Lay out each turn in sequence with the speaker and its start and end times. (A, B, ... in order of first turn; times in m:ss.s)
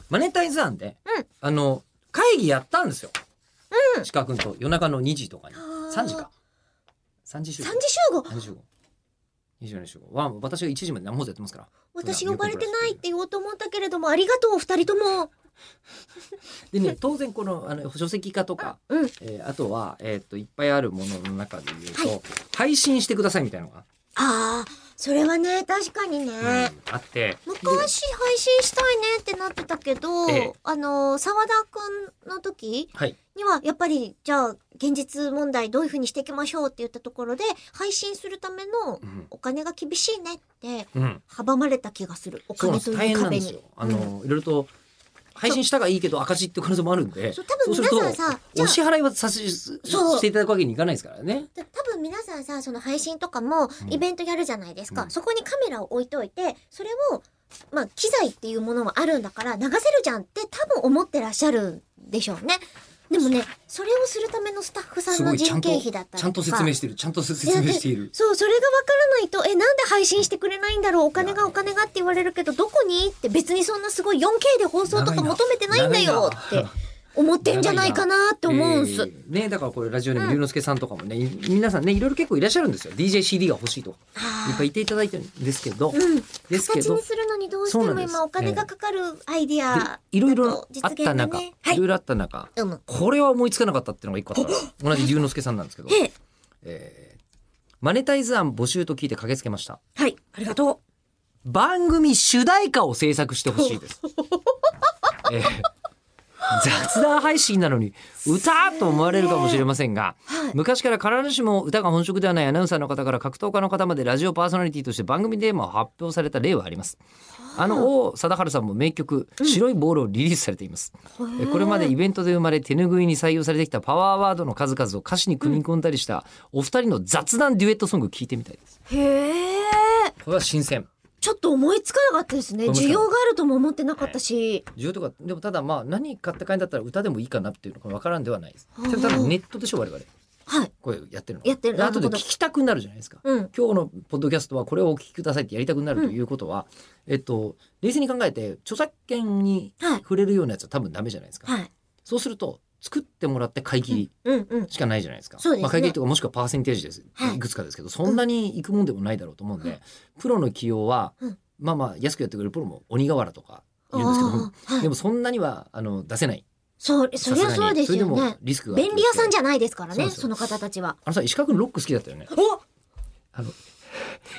0:00.1-0:03.1 A
0:03.7-0:04.1 B
0:04.0-0:06.3 A
0:05.6-0:06.3 B
0:07.2-0:08.6 A
0:07.6-0:08.4 B
0:09.6-0:13.0 A
0:11.9-0:15.3 B
0:16.7-0:23.8 A
0:24.2-0:26.7 B
0:26.4-0:27.9 A
0:27.5-0:44.1 B
0:30.3-0:30.5 A
0:40.9-0:41.2 A
0:42.6-0:44.7 A
0:45.3-0:51.5 A
0:47.3-0:48.8 B
0:49.8-0:50.2 B
0:51.6-1:06.7 B
1:05.1-1:08.1 A
1:07.4-1:19.1 B
1:11.2-1:11.4 A
1:14.9-1:16.7 A
1:17.4-1:27.0 A
1:24.1-1:24.7 B
1:25.9-1:31.8 B
1:27.7-1:28.7 A
1:29.7-1:36.0 A
1:32.6-1:32.8 B
1:34.4-1:35.0 B
1:36.6-1:37.2 A
1:37.8-1:39.8 A
1:40.0-1:40.8 B
1:41.4-1:44.0 A
1:45.2-1:45.7 A
1:46.5-1:57.0 A
1:50.3-1:50.5 B
1:57.5-1:57.9 B
1:57.5-2:08.7 A
2:01.2-2:01.9 B
2:08.9-2:10.1 B
2:10.2-2:10.9 A
2:11.2-2:14.6 B
2:12.6-2:13.1 A
2:14.7-2:20.1 A
2:18.8-2:19.3 B
2:20.5-2:20.7 B
2:20.8-2:31.5 A
2:21.4-2:22.2 B
2:23.2-2:23.5 B
2:32.0-2:34.1 A
2:33.9-2:34.7 B
2:34.7-2:46.4 A
2:35.4-2:36.0 B
2:43.9-2:44.9 B
2:46.8-2:51.0 B
2:47.2-2:49.3 A
2:49.9-2:50.3 A
2:51.0-2:52.3 A
2:52.3-2:52.6 B
2:53.3-2:54.2 A